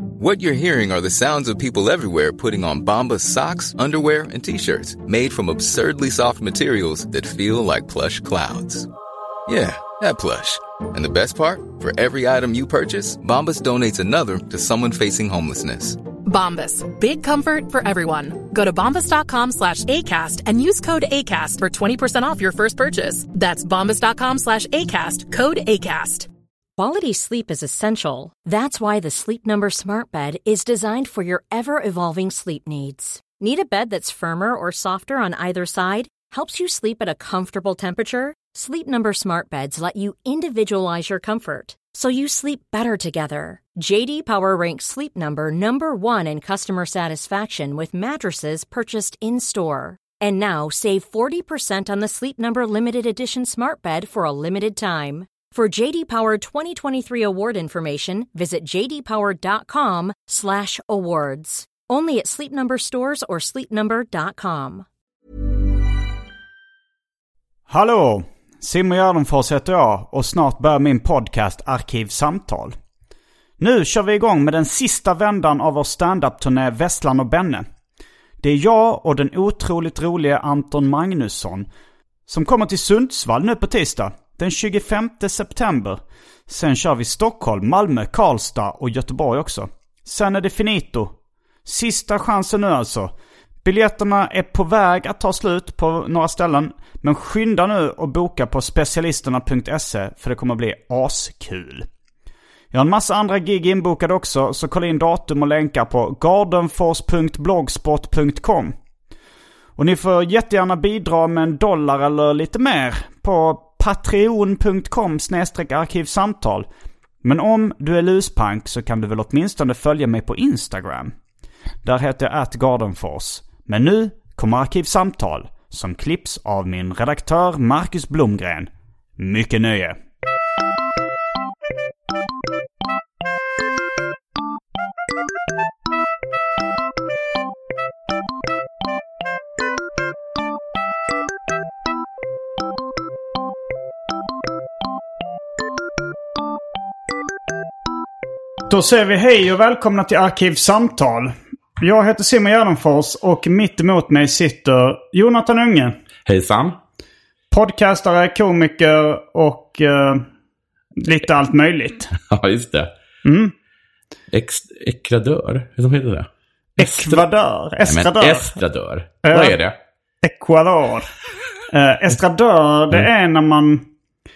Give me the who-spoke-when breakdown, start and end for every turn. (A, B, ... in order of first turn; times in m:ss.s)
0:00.2-0:08.9 A
0:09.5-0:16.0 A
0:16.2-0:26.3 B
0:26.8-1:04.9 C
1:07.7-1:12.8 D
1:13.6-1:17.7 D
1:18.4-1:21.7 D
1:22.3-1:31.1 D
1:31.7-1:33.1 D
1:33.6-1:41.9 D
1:42.7-1:48.7 D
1:49.8-1:56.7 D
1:57.2-2:01.1 D
2:01.8-2:10.0 D
2:28.7-2:36.0 D
2:36.2-2:36.8 E
2:37.5-2:40.2 D
2:41.0-2:42.1 D
2:42.2-2:42.9 E
2:43.2-2:43.5 D
2:44.3-2:46.3 E
2:46.8-2:48.6 D
2:46.8-2:47.2 E
2:47.8-2:49.8 E
2:49.2-2:49.6 D
2:50.2-2:51.1 D
2:51.7-2:53.8 D